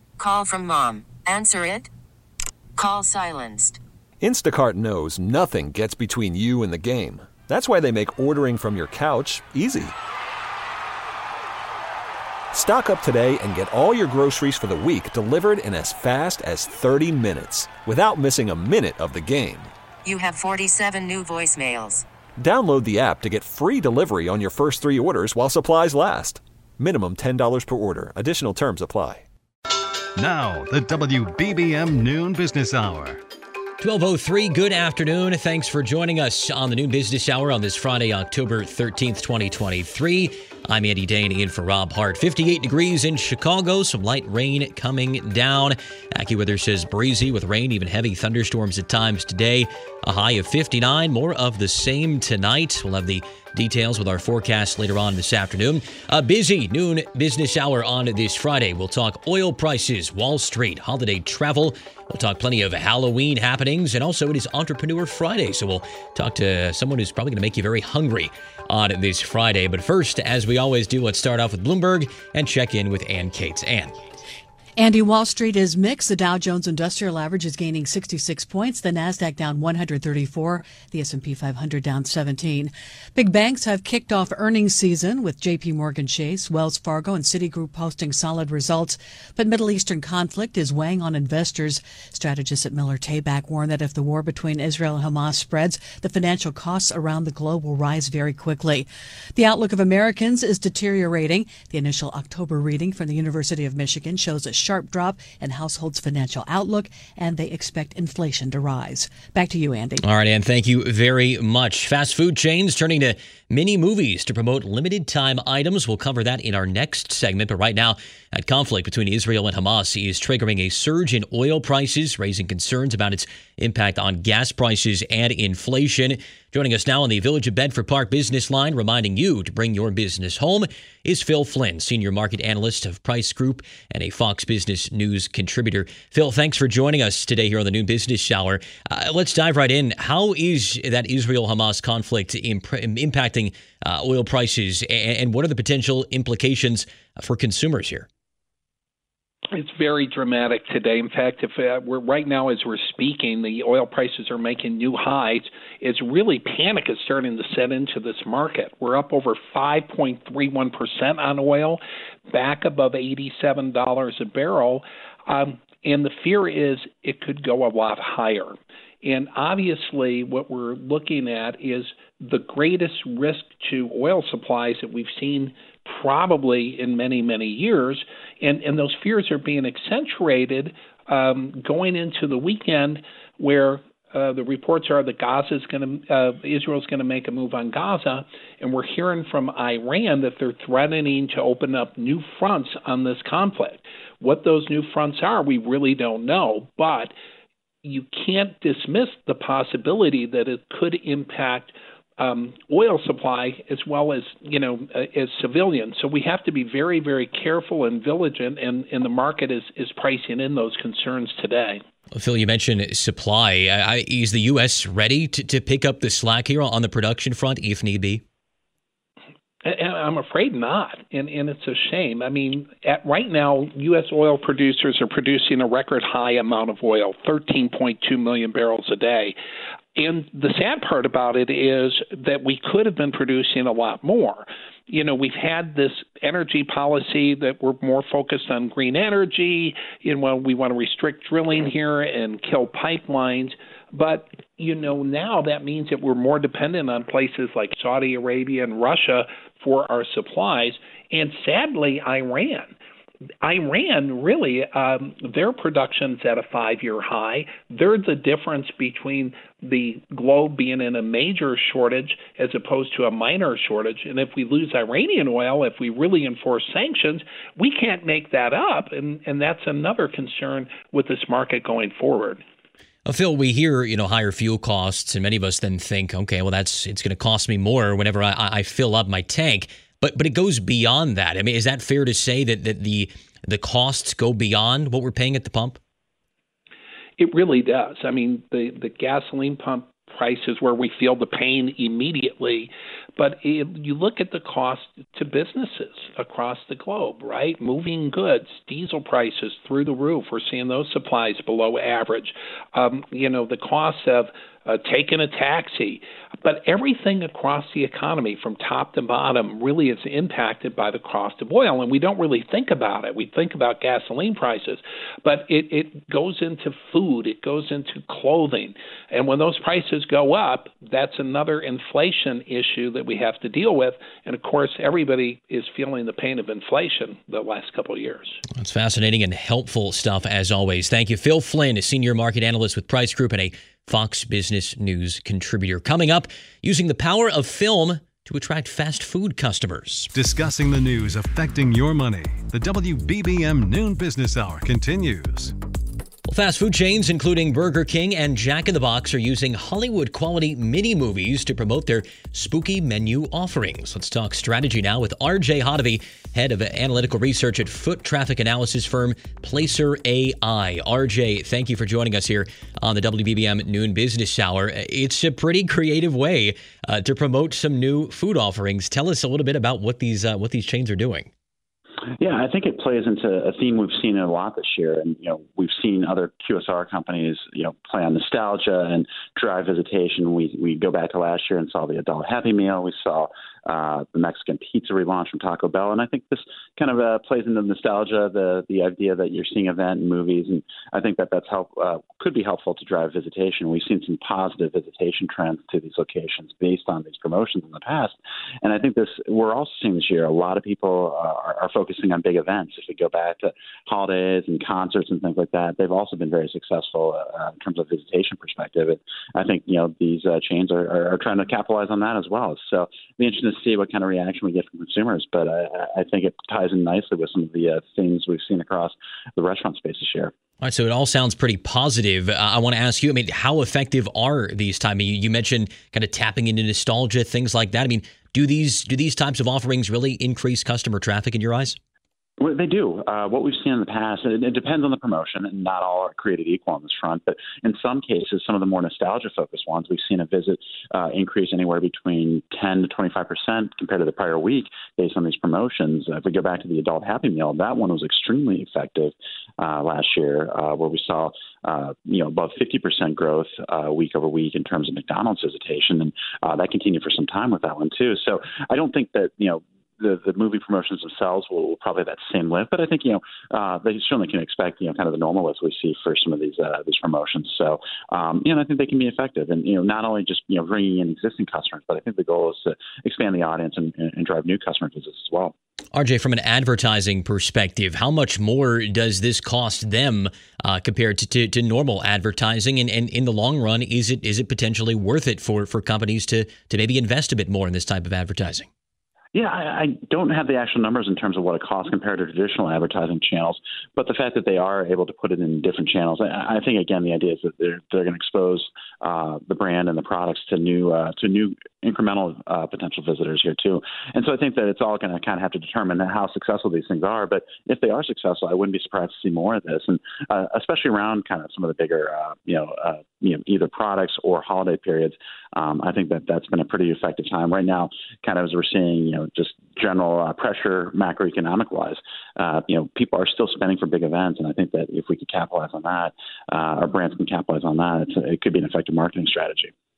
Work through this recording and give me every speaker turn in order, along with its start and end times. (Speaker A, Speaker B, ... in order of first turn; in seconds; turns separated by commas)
Speaker A: 0.2-1.9, Speaker A: 2.8-3.8, Speaker B: 4.2-9.9, Speaker B: 12.5-19.7, Speaker A: 20.0-22.1, Speaker B: 22.4-29.2, Speaker C: 30.2-33.2, Speaker D: 33.8-73.9, Speaker E: 74.8-110.0, Speaker D: 110.0-148.1, Speaker F: 149.5-197.1, Speaker F: 197.8-211.8, Speaker D: 212.1-218.2, Speaker F: 219.6-229.4, Speaker F: 229.9-252.8, Speaker F: 253.4-272.4, Speaker D: 273.1-285.8, Speaker F: 287.2-328.4, Speaker D: 328.5-340.1, Speaker C: 340.1-345.5, Speaker D: 346.3-371.3, Speaker G: 372.2-420.3, Speaker D: 420.6-431.8, Speaker G: 432.4-475.5, Speaker D: 475.9-488.7, Speaker G: 489.3-529.7